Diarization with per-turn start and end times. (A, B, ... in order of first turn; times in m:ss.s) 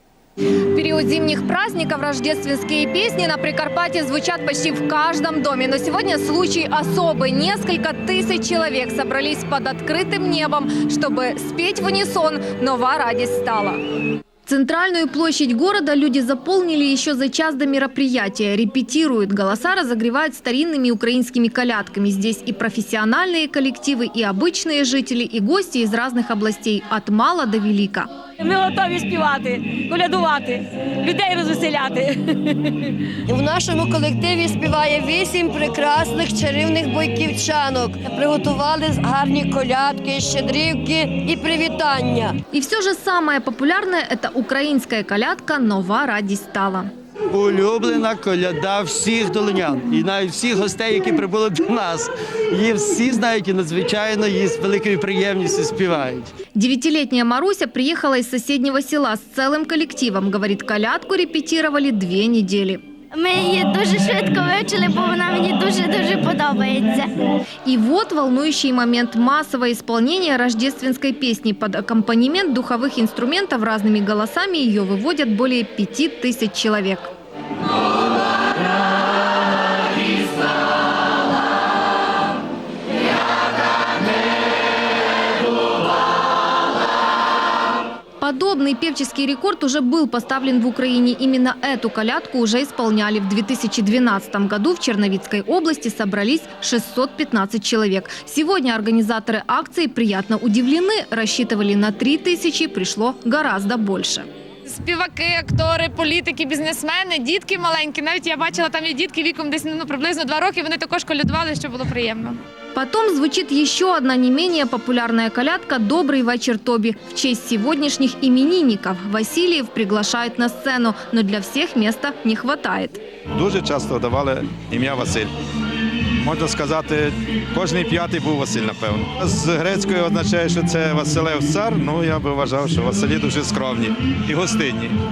0:00.7-0:13.8 A
0:14.4-0:28.1 A
0:28.4-0:33.0 B
0:33.3-0:42.4 C
0:42.5-0:46.9 A
0:47.3-0:56.3 D
0:56.6-1:02.8 A
1:03.1-1:07.2 E
1:07.6-1:17.1 A
1:28.2-1:44.3 A
1:44.6-1:52.4 F
1:52.7-2:03.0 A
2:03.3-2:05.3 G
2:06.2-2:14.9 G